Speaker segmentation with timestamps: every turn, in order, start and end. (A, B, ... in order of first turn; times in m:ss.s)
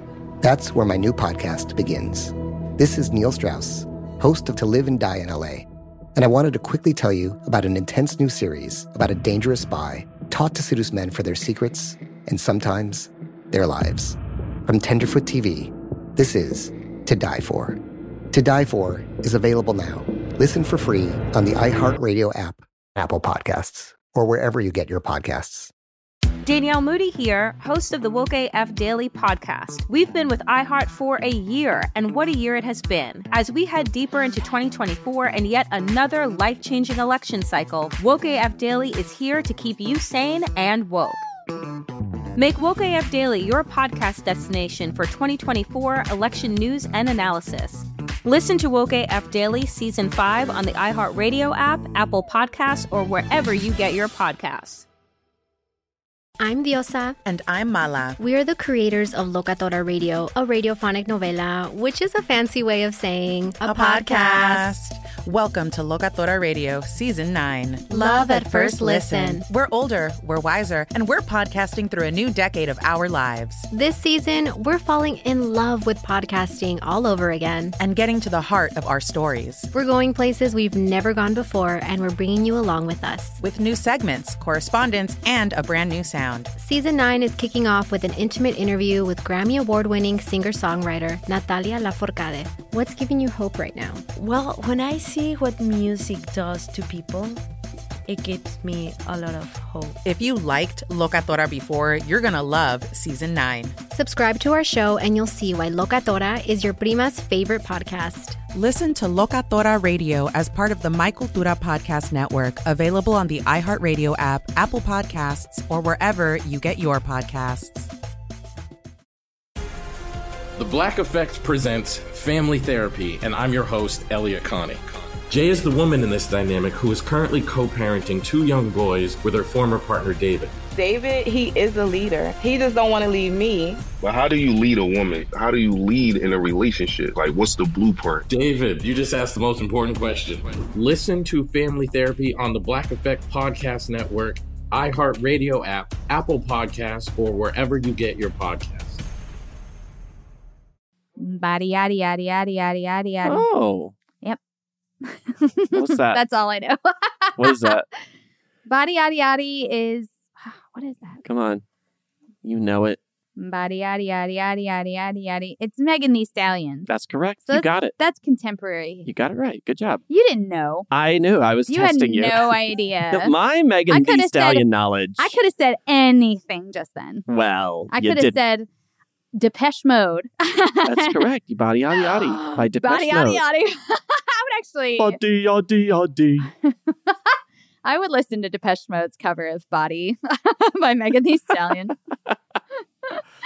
0:00.4-0:17.8 A
0:18.3-0:25.7 A
0:26.4-0:41.2 B
0:42.4-0:54.8 B
0:56.4-0:57.2 C
0:57.2-0:58.2 D
0:58.2-1:04.7 C
1:03.6-1:13.7 D
1:07.9-1:09.4 C
1:13.7-1:17.8 C
1:17.8-1:19.7 D
1:19.7-1:23.4 C
1:23.4-1:26.5 D
1:26.6-1:34.0 C
1:34.1-1:37.4 E
1:38.1-1:40.0 E
1:40.0-1:43.8 D
1:43.9-1:48.4 C
1:48.5-1:57.9 D
2:00.6-2:10.5 F
2:10.7-2:13.8 G
2:14.0-2:18.3 H
2:18.3-2:29.0 F
2:31.2-2:33.4 I
2:33.2-2:33.9 J
2:35.0-2:37.7 I
2:35.7-2:36.2 J
2:37.4-2:37.8 J
2:38.6-2:41.2 I
2:41.2-2:41.6 J
2:42.4-2:43.0 J
2:43.4-2:46.9 I
2:46.9-2:47.9 J
2:47.5-2:49.1 I
2:49.0-2:50.0 J
2:50.1-2:50.9 I
2:50.9-2:55.3 J
2:51.7-2:53.3 I
2:53.9-2:54.6 I
2:55.2-2:57.2 I
2:57.3-2:58.4 J
2:57.9-2:58.7 I
2:59.3-3:01.2 I
3:00.8-3:03.4 J
3:01.9-3:05.2 I
3:05.0-3:06.5 J
3:06.6-3:12.0 I